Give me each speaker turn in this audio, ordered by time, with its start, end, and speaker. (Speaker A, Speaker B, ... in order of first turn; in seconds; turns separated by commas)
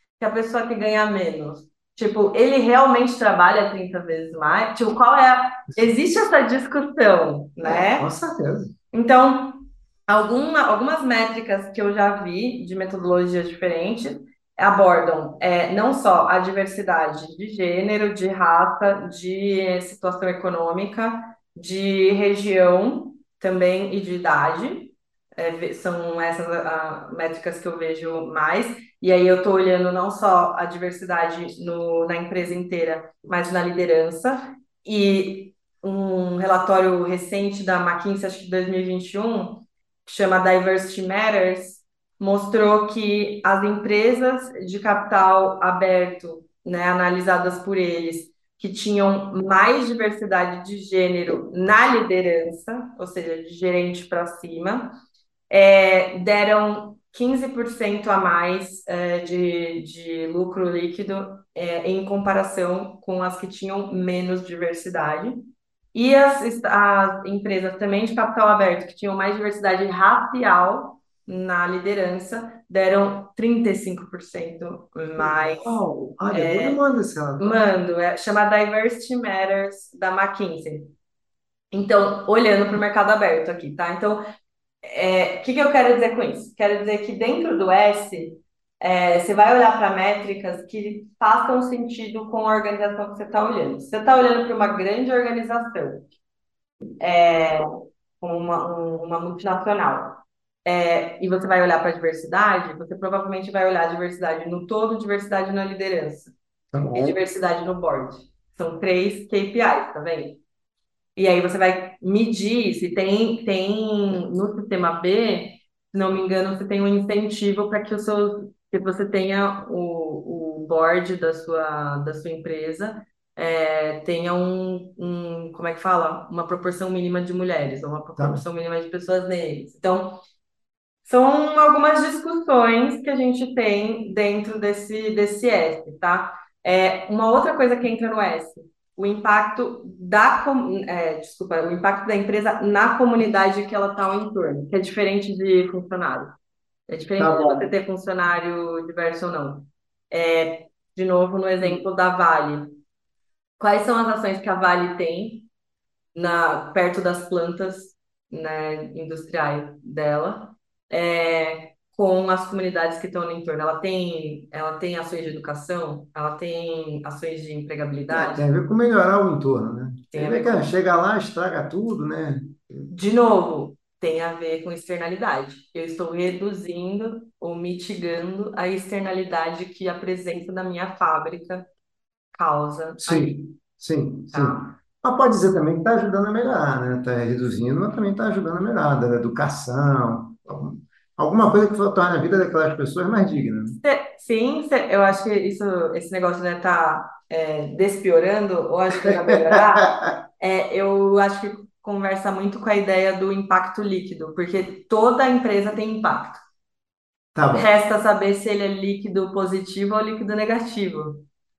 Speaker A: 0.2-8.1, Speaker B: 7.6-8.7, Speaker A: 8.9-54.9, Speaker A: 55.5-65.4, Speaker A: 65.9-76.8, Speaker B: 75.2-77.6, Speaker A: 77.4-80.9, Speaker A: 81.7-84.2, Speaker A: 84.8-96.0, Speaker A: 97.0-106.3, Speaker B: 106.7-107.2, Speaker A: 106.9-110.4, Speaker A: 111.2-130.2, Speaker B: 128.2-128.4, Speaker A: 131.1-146.3, Speaker A: 146.9-152.7, Speaker B: 147.2-147.7, Speaker A: 153.6-155.4, Speaker A: 156.1-168.4, Speaker B: 168.1-172.9, Speaker A: 170.1-170.6, Speaker A: 172.9-181.7, Speaker A: 182.3-183.4, Speaker B: 183.0-193.8, Speaker A: 184.3-184.7, Speaker A: 193.8-206.4, Speaker B: 199.0-200.2, Speaker B: 207.3-207.7, Speaker A: 207.5-211.2